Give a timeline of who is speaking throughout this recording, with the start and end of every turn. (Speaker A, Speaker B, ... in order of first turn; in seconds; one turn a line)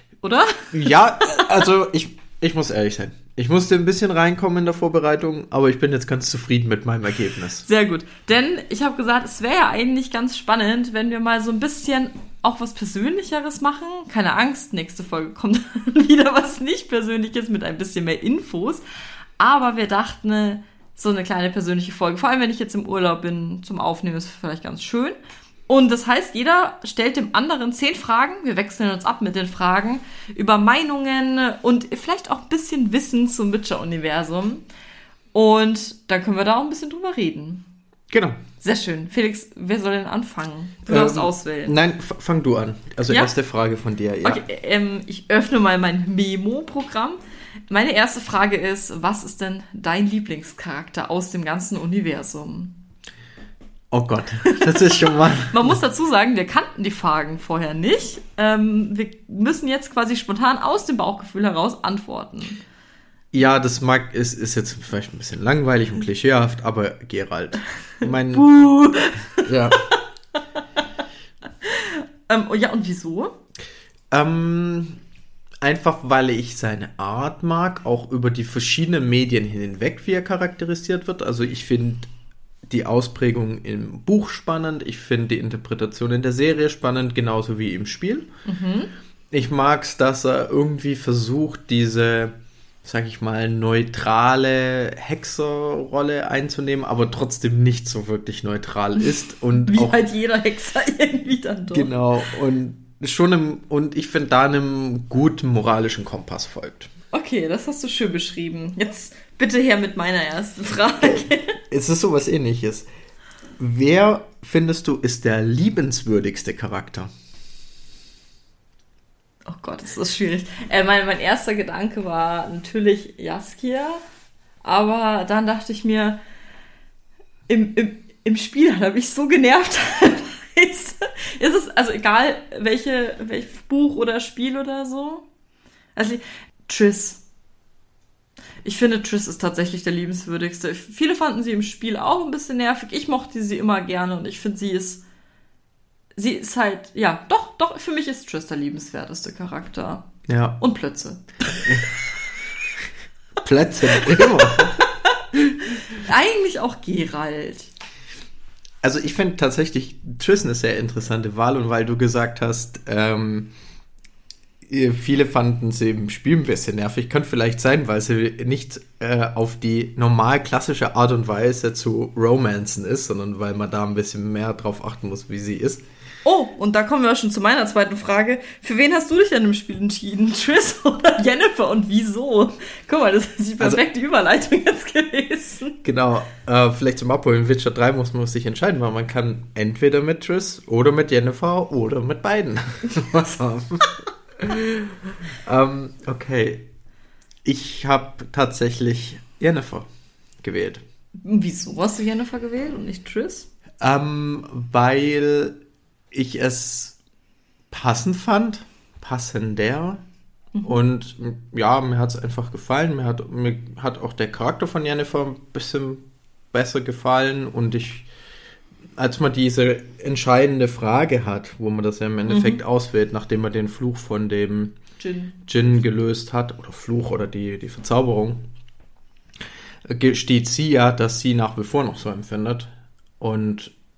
Speaker A: 0.2-1.6
Speaker B: 0.7-7.7
Speaker A: 7.6-18.8
Speaker A: 19.4-25.2
Speaker A: 25.7-34.7
Speaker A: 35.3-37.6
Speaker B: 38.1-38.4
Speaker A: 38.6-41.8
Speaker B: 40.9-44.4
Speaker A: 44.2-52.8
Speaker B: 53.9-55.8
Speaker A: 54.5-62.6
Speaker B: 63.3-68.5
Speaker A: 68.0-70.0
Speaker B: 69.4-69.9
Speaker A: 71.6-73.3
Speaker B: 74.1-75.0
Speaker B: 75.6-82.1
Speaker B: 82.7-88.3
Speaker A: 88.5-88.9
Speaker B: 89.3-100.0
Speaker A: 99.5-102.0
Speaker B: 101.7-106.9
Speaker A: 107.1-111.6
Speaker B: 111.7-112.9
Speaker B: 113.6-117.1
Speaker A: 119.5-124.0
Speaker A: 124.6-126.2
Speaker A: 127.5-135.2
Speaker A: 136.0-137.2
Speaker A: 138.6-145.0
Speaker A: 146.2-150.1
Speaker B: 150.3-150.6
Speaker A: 150.6-151.8
Speaker B: 153.4-154.8
Speaker A: 154.0-155.1
Speaker A: 155.7-157.7
Speaker B: 158.8-163.5
Speaker B: 164.7-175.8
Speaker A: 176.2-185.8
Speaker B: 185.8-194.9
Speaker B: 195.5-196.7
Speaker B: 197.4-199.9
Speaker B: 200.4-200.8
Speaker A: 201.2-203.5
Speaker B: 203.8-205.6
Speaker B: 206.1-207.0
Speaker B: 207.7-210.0
Speaker A: 210.6-210.8
Speaker B: 210.6-218.1
Speaker B: 219.0-224.8
Speaker A: 222.3-222.6
Speaker A: 225.0-225.5
Speaker B: 225.5-228.4
Speaker B: 229.9-233.7